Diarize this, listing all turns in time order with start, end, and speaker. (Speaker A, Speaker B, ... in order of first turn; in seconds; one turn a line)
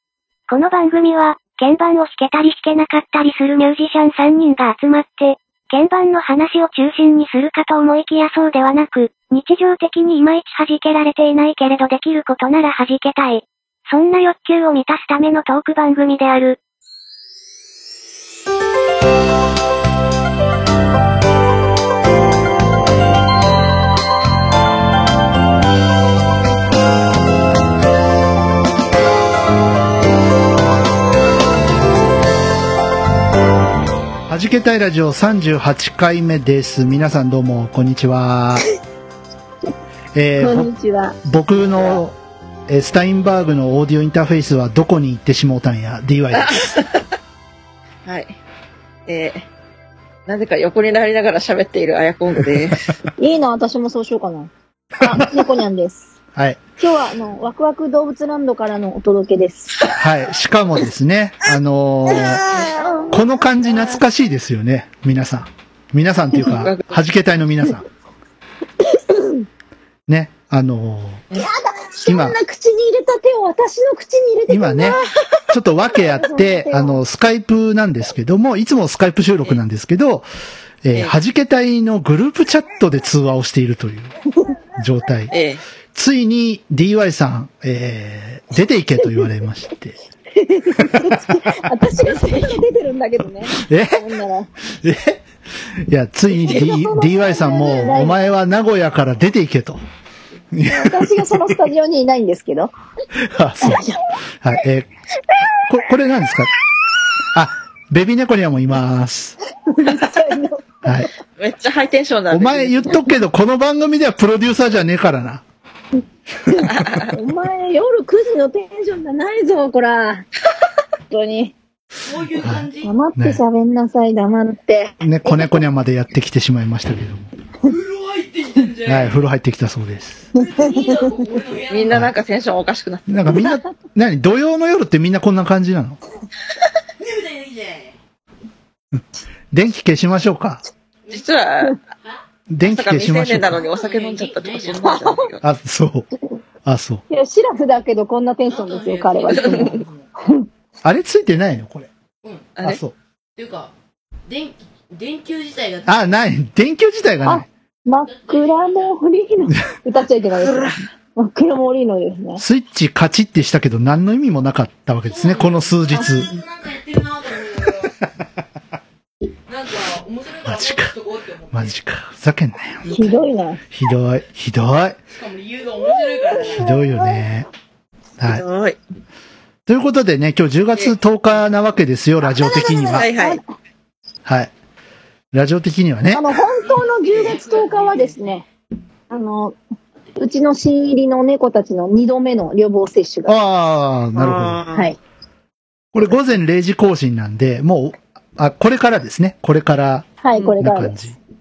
Speaker A: 0.5-16.6
Speaker B: 34.3-38.7
Speaker B: 40.1-40.7
Speaker C: 40.4-41.2
Speaker B: 41.2-42.1
Speaker B: 42.7-46.8
Speaker D: 46.4-47.0
Speaker D: 48.0-48.4
Speaker D: 49.1-49.5
Speaker D: 50.3-53.0
Speaker C: 53.2-56.1
Speaker B: 56.3-56.6
Speaker C: 56.8-59.8
Speaker B: 59.9-62.4
Speaker C: 62.1-63.5
Speaker B: 63.1-67.8
Speaker D: 66.4-67.0
Speaker C: 68.9-69.4
Speaker B: 70.1-71.2
Speaker C: 71.3-75.0
Speaker B: 72.0-72.4
Speaker B: 74.5-80.2
Speaker C: 75.9-77.0
Speaker B: 80.8-84.1
Speaker B: 84.8-85.4
Speaker D: 85.3-85.6
Speaker B: 85.9-90.0
Speaker C: 90.3-94.5
Speaker B: 90.8-91.3
Speaker D: 92.0-92.6
Speaker B: 93.5-94.1
Speaker B: 94.6-99.8
Speaker C: 96.3-98.2
Speaker B: 100.5-101.5
Speaker C: 100.7-102.7
Speaker B: 103.1-103.8
Speaker C: 103.6-104.0
Speaker B: 104.4-104.9
Speaker B: 105.7-106.5
Speaker B: 107.3-109.4
Speaker C: 109.7-111.0
Speaker B: 110.8-111.1
Speaker D: 111.4-113.0
Speaker B: 112.3-115.4
Speaker C: 116.5-120.2
Speaker D: 116.6-117.1
Speaker C: 121.1-121.5
Speaker E: 122.0-122.9
Speaker B: 122.3-123.4
Speaker C: 122.8-125.5
Speaker B: 125.0-127.3
Speaker E: 127.6-129.2
Speaker B: 128.8-130.3
Speaker E: 130.3-132.0
Speaker C: 130.4-131.0
Speaker D: 131.7-133.6
Speaker B: 133.1-136.0
Speaker E: 137.0-138.0
Speaker B: 138.9-140.6
Speaker D: 141.1-141.8
Speaker B: 142.5-143.6
Speaker D: 142.6-145.4
Speaker E: 143.6-145.0
Speaker B: 145.4-146.1
Speaker B: 146.7-147.0
Speaker C: 147.1-150.5
Speaker E: 148.5-150.1
Speaker D: 149.4-149.8
Speaker B: 150.8-151.9
Speaker E: 152.2-152.5
Speaker D: 152.6-152.8
Speaker B: 152.6-152.9
Speaker E: 153.4-153.7
Speaker E: 154.3-156.1
Speaker B: 155.8-157.5
Speaker C: 157.2-162.4
Speaker E: 158.1-158.9
Speaker B: 162.4-166.3
Speaker E: 165.1-168.0
Speaker E: 169.5-171.7
Speaker B: 170.4-171.0
Speaker B: 171.5-173.1
Speaker C: 172.9-173.6
Speaker B: 173.7-175.0
Speaker E: 175.1-176.8
Speaker C: 176.4-177.2
Speaker B: 176.5-177.5
Speaker B: 178.2-178.4
Speaker D: 178.2-178.8
Speaker B: 179.7-183.1
Speaker C: 182.3-183.4
Speaker D: 182.9-183.4
Speaker B: 184.2-184.5
Speaker B: 185.3-186.3
Speaker C: 186.1-188.5
Speaker E: 186.4-188.3
Speaker C: 189.1-189.6
Speaker C: 190.2-193.4
Speaker B: 193.3-194.7
Speaker D: 194.2-194.9
Speaker C: 194.7-195.0
Speaker B: 195.9-201.2
Speaker C: 200.2-201.2